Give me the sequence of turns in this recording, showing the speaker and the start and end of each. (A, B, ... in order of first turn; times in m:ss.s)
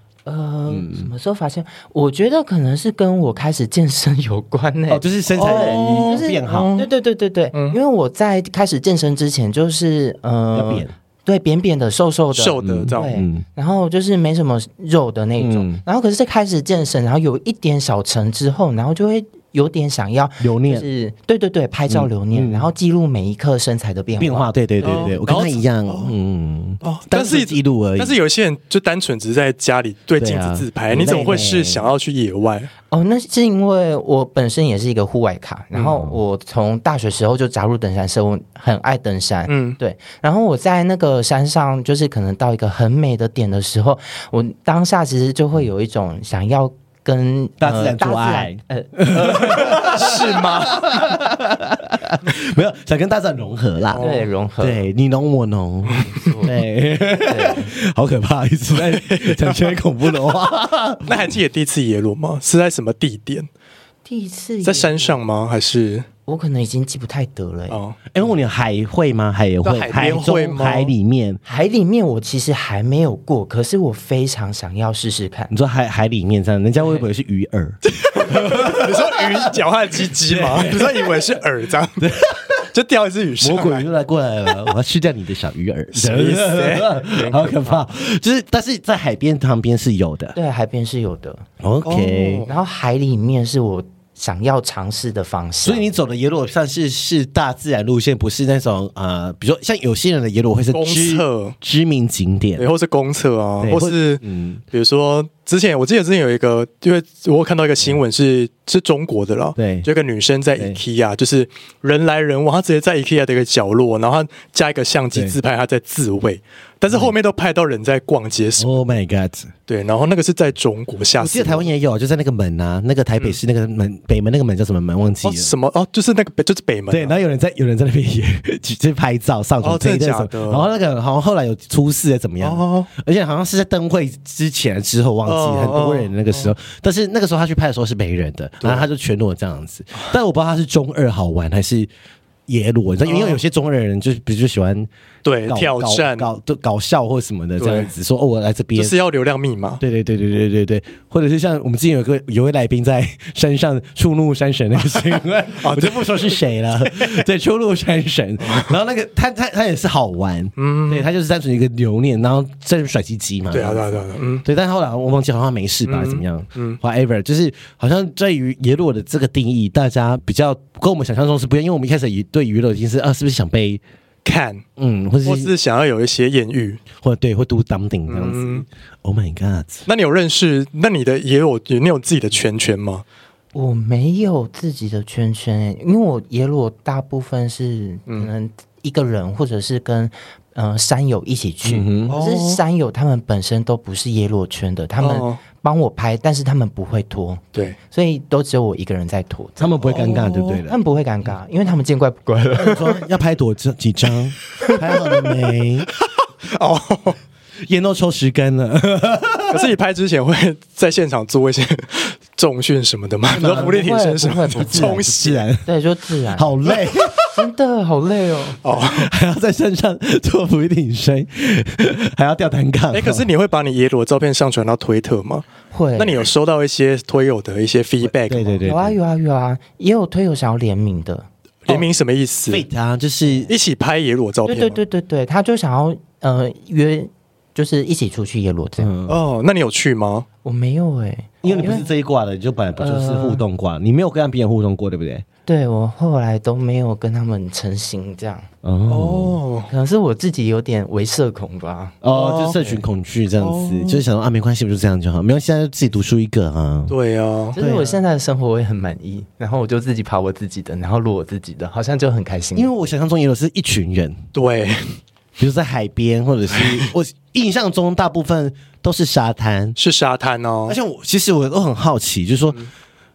0:00.3-0:25.2 A
0:00.7-0:01.1 B
0:04.9-0:06.7 B
0:05.3-0:06.9 C
0:10.5-0:10.9 B
0:12.3-0:13.1 C
0:12.6-0:13.4 B
0:15.4-0:15.8 B
0:20.4-0:20.9 B
0:21.9-0:22.7 B
0:24.2-0:28.2 B
0:24.8-0:26.1 C
0:26.8-0:32.7 C
0:30.2-0:31.9 B
0:32.9-0:49.9 A
0:39.5-0:39.8 C
0:47.6-0:54.0 B
0:49.8-0:51.0 C
0:53.9-0:54.3 C
0:54.0-0:54.8 A
0:54.6-1:01.3 B
0:56.0-0:56.5 A
0:57.2-0:57.7 A
0:58.7-0:59.7 C
1:01.0-1:03.5 C
1:04.0-1:05.2 A
1:04.6-1:06.1 C
1:06.3-1:07.8 A
1:07.7-1:08.0 C
1:08.1-1:11.4 B
1:09.6-1:10.9 C
1:11.4-1:15.5 A
1:15.5-1:19.5 B
1:17.8-1:22.1 C
1:20.3-1:21.2 B
1:22.0-1:22.6 B
1:22.7-1:23.9 C
1:23.4-1:30.4 B
1:25.9-1:27.7 C
1:30.4-1:31.4 A
1:31.6-1:32.5 B
1:31.8-1:32.5 C
1:32.5-1:35.9 A
1:35.6-1:42.7 B
1:40.7-1:41.6 C
1:42.6-1:44.2 C
1:43.6-1:44.6 B
1:44.7-1:58.7 C
1:49.6-1:49.9 B
1:56.9-1:57.1 B
1:58.6-1:59.5 B
1:59.7-2:01.7 C
2:01.2-2:05.5 B
2:05.2-2:07.1 C
2:06.9-2:21.9 B
2:09.6-2:10.7 C
2:12.4-2:12.9 C
2:15.2-2:16.5 C
2:18.6-2:18.9 C
2:22.5-2:24.9 B
2:23.0-2:23.4 C
2:25.2-2:26.3 C
2:25.5-2:29.0 B
2:27.6-2:27.9 C
2:28.8-2:29.8 C
2:29.8-2:53.8 B
2:35.6-2:36.4 C
2:38.4-2:38.7 C
2:40.6-2:41.1 C
2:43.5-2:44.4 C
2:45.9-2:46.8 C
2:54.2-2:54.6 C
2:54.8-2:55.5 B
2:55.2-2:56.8 C
2:57.0-2:59.8 B
2:58.1-2:58.6 C
2:59.9-3:03.0 C
3:03.5-3:20.1 A
3:11.6-3:12.2 B
3:12.1-3:12.6 C
3:15.0-3:15.4 C
3:19.6-3:20.8 B
3:19.8-3:20.6 C
3:20.7-3:23.0 A
3:22.6-3:25.9 B
3:24.6-3:25.3 C
3:26.4-3:27.2 C
3:27.6-3:29.7 B
3:29.5-3:35.5 C
3:33.3-3:33.8 B
3:33.4-3:35.0 A
3:34.5-3:35.7 B
3:35.7-3:36.7 A
3:36.4-3:37.2 B
3:36.7-3:37.1 C
3:37.3-3:38.6 A
3:38.6-3:39.1 C
3:38.8-3:43.3 B
3:42.9-3:48.7 C
3:45.7-3:46.3 A
3:48.0-3:49.0 B
3:48.6-3:51.3 A
3:51.7-3:52.6 C
3:52.5-3:53.5 B
3:53.5-3:54.8 C
3:54.5-3:58.9 A
3:58.8-3:59.2 B
3:59.1-4:00.3 C
4:00.4-4:01.8 A
4:01.4-4:05.2 B
4:02.8-4:03.4 A
4:05.5-4:08.5 A
4:08.6-4:09.4 B
4:08.9-4:09.7 C
4:09.7-4:12.0 A
4:12.0-4:17.0 B
4:12.1-4:12.8 C
4:13.4-4:14.0 C
4:16.9-4:17.6 C
4:17.5-4:22.7 A
4:17.6-4:18.0 B
4:22.6-4:24.2 B
4:24.4-4:25.0 C
4:25.4-4:29.8 B
4:26.6-4:26.9 C
4:29.8-4:30.8 C
4:30.7-4:32.6 B